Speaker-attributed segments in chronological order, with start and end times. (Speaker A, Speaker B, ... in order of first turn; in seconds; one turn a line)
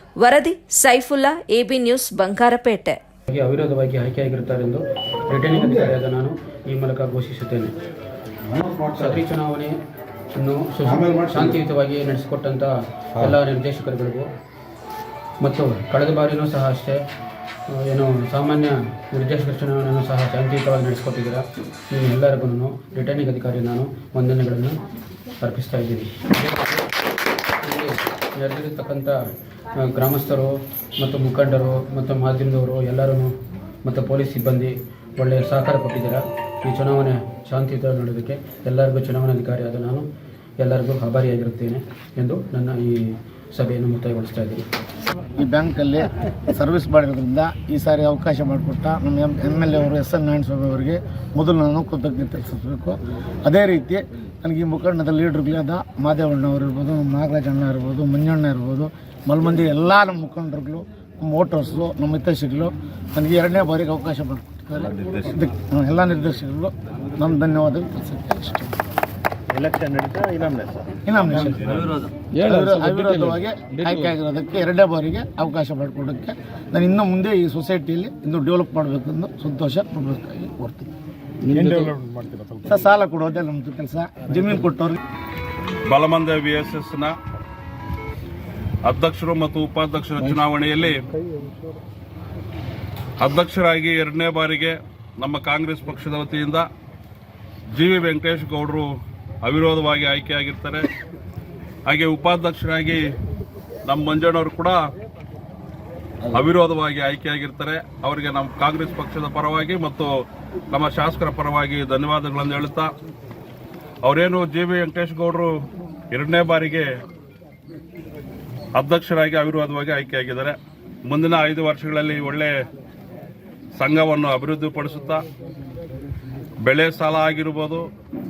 Speaker A: 0.2-3.0
Speaker B: 3.3-7.8
Speaker C: 8.5-9.2
Speaker B: 9.0-9.8
Speaker B: 10.3-12.7
Speaker C: 10.9-11.6
Speaker B: 13.2-14.3
Speaker B: 15.4-17.0
Speaker B: 17.8-24.8
Speaker B: 25.5-26.9
Speaker B: 27.6-29.2
Speaker B: 29.8-33.3
Speaker B: 33.9-40.0
Speaker B: 40.6-44.6
Speaker D: 45.4-68.8
Speaker C: 65.0-65.3
Speaker C: 69.5-71.0
Speaker D: 71.0-71.8
Speaker C: 71.5-73.2
Speaker D: 72.4-80.9
Speaker C: 73.8-74.0
Speaker C: 81.5-82.6
Speaker D: 81.5-81.9
Speaker D: 82.6-85.0
Speaker E: 85.9-87.1
Speaker E: 88.8-91.0
Speaker E: 93.2-96.7
Speaker E: 97.8-98.9
Speaker E: 99.4-100.9
Speaker E: 101.9-103.0
Speaker E: 103.9-104.8
Speaker E: 106.3-110.1
Speaker E: 110.7-112.9
Speaker E: 114.0-115.5
Speaker E: 116.1-116.9
Speaker E: 118.8-122.5
Speaker E: 123.8-125.2
Speaker E: 126.6-127.8